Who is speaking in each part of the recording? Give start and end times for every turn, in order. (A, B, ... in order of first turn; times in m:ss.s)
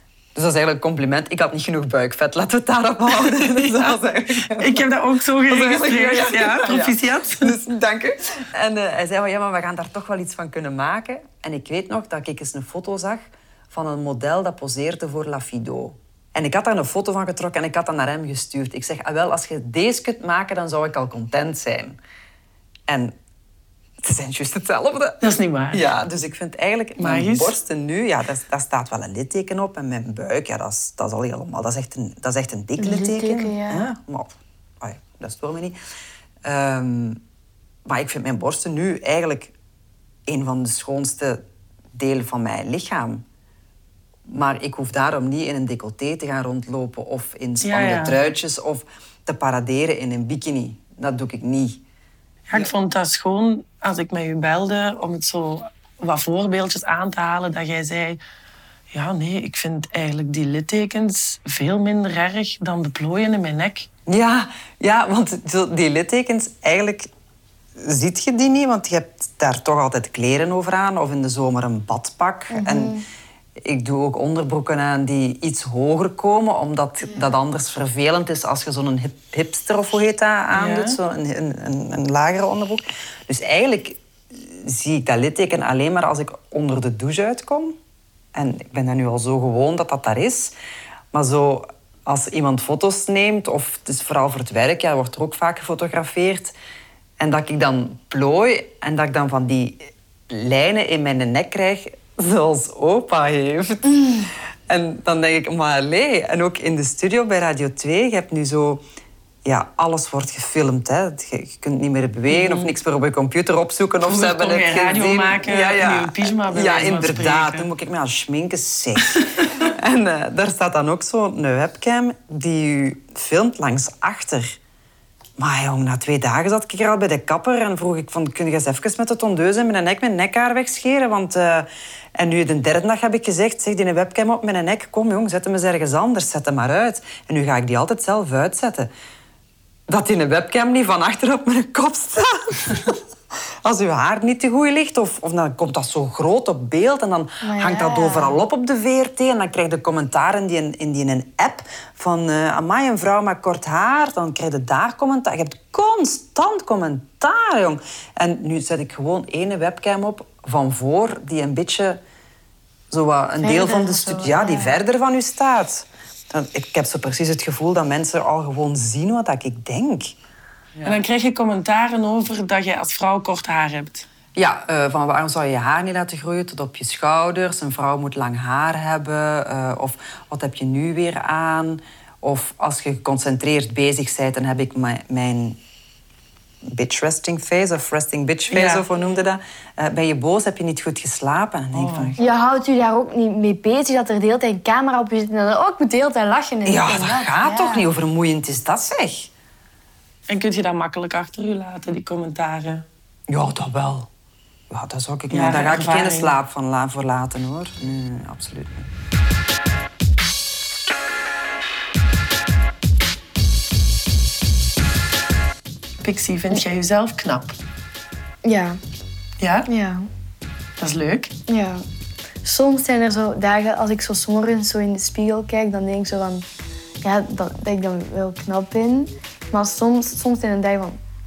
0:00.3-0:04.8 A
0:04.5-0:07.6 B
0:05.4-0:22.0 A
0:22.9-0:23.1 A
0:24.0-0:25.2 A
0:25.2-0:25.8 B
0:25.7-0:35.8 A
0:27.0-0:27.5 B
0:32.8-0:33.9 C
0:36.4-0:37.2 A
0:37.8-0:39.5 A
0:40.2-0:41.4 A
0:41.9-0:43.2 A
0:44.2-0:51.8 A
0:47.6-0:48.2 B
0:52.5-0:58.2 B
0:58.9-1:03.9 B
1:04.1-1:07.1 A
1:07.8-1:13.0 A
1:12.5-1:13.0 C
1:13.6-1:27.8 A
1:20.5-1:21.0 B
1:28.3-1:30.5 A
1:31.1-1:36.5 A
1:37.2-1:48.8 A
1:49.4-2:04.6 A
1:52.3-1:52.7 B
1:54.0-1:57.7 B
1:59.0-1:59.4 B
2:05.4-2:18.9 A
2:19.9-2:23.0 A
2:23.6-2:42.0 A
2:27.4-2:28.4 C
2:42.9-2:50.1 A
2:43.4-2:44.8 C
2:50.8-2:54.1 B
2:54.3-3:05.6 A
3:06.6-3:12.2 A
3:08.5-3:08.8 B
3:11.7-3:12.2 B
3:12.2-3:17.8 C
3:16.6-3:19.3 A
3:20.3-3:22.8 B
3:23.3-3:24.1 A
3:24.7-3:28.9 A
3:25.3-3:26.3 B
3:36.0-3:37.6 B
3:38.4-3:38.8 C
3:39.4-3:39.7 B
3:39.7-3:40.1 C
3:40.8-3:41.3 B
3:41.5-3:41.8 C
3:42.4-3:46.4 C
3:47.0-3:51.0 C